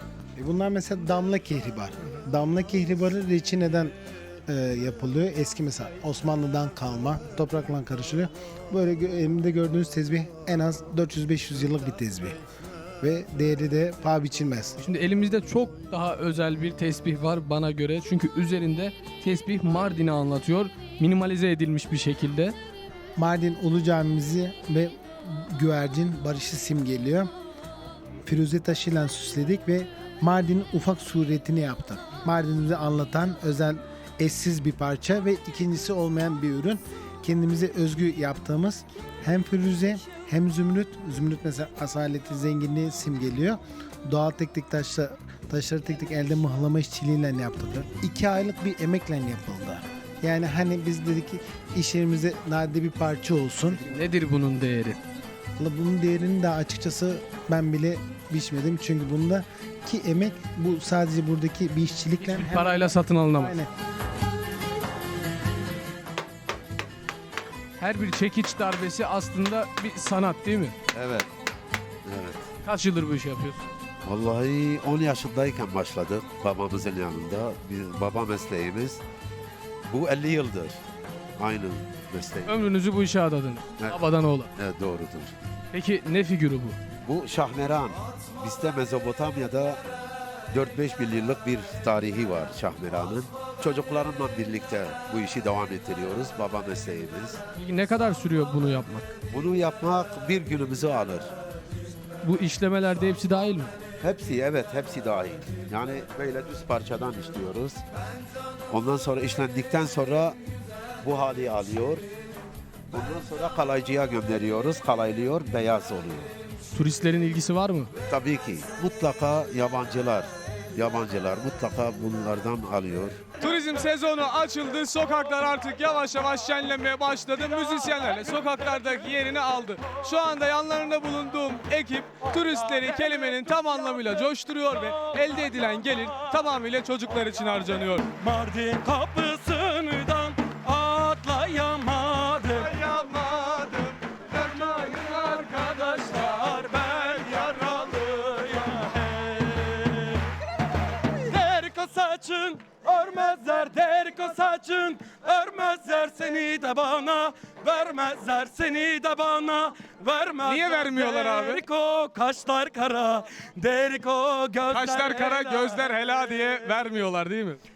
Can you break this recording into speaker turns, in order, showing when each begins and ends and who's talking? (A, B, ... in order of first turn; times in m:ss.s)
0:00.4-0:03.9 A
0:04.5-0:12.4 A
0:13.0-0:14.8 A
0:14.8-0:22.5 B
0:23.2-0:27.3 A
0:28.2-0:53.8 A
0:53.8-0:55.0 B
0:55.6-1:03.7 A
1:02.2-1:03.6 B
1:07.8-1:10.7 B
1:10.9-1:11.3 C
1:12.1-1:12.4 C
1:12.6-1:13.6 B
1:14.0-1:19.0 C
1:19.9-1:20.8 C
1:21.4-1:22.6 C
1:22.4-1:24.5 B
1:23.8-1:25.3 C
1:25.7-1:26.8 B
1:27.0-1:29.8 C
1:30.5-1:37.4 C
1:37.6-1:39.1 B
1:39.3-1:41.3 C
1:42.2-1:43.7 B
1:44.0-1:47.8 C
1:48.7-1:50.4 C
1:51.0-1:52.0 C
1:52.9-1:56.3 C
1:56.7-1:57.9 B
1:58.1-2:03.2 C
2:03.4-2:18.1 B
2:19.9-2:20.8 D
2:24.7-2:25.2 D
2:26.2-2:27.2 D
2:27.8-2:29.7 D
2:31.3-2:36.3 D
2:37.2-2:38.6 D
2:39.7-2:44.7 D
2:40.4-2:41.6 B
2:44.7-2:47.6 B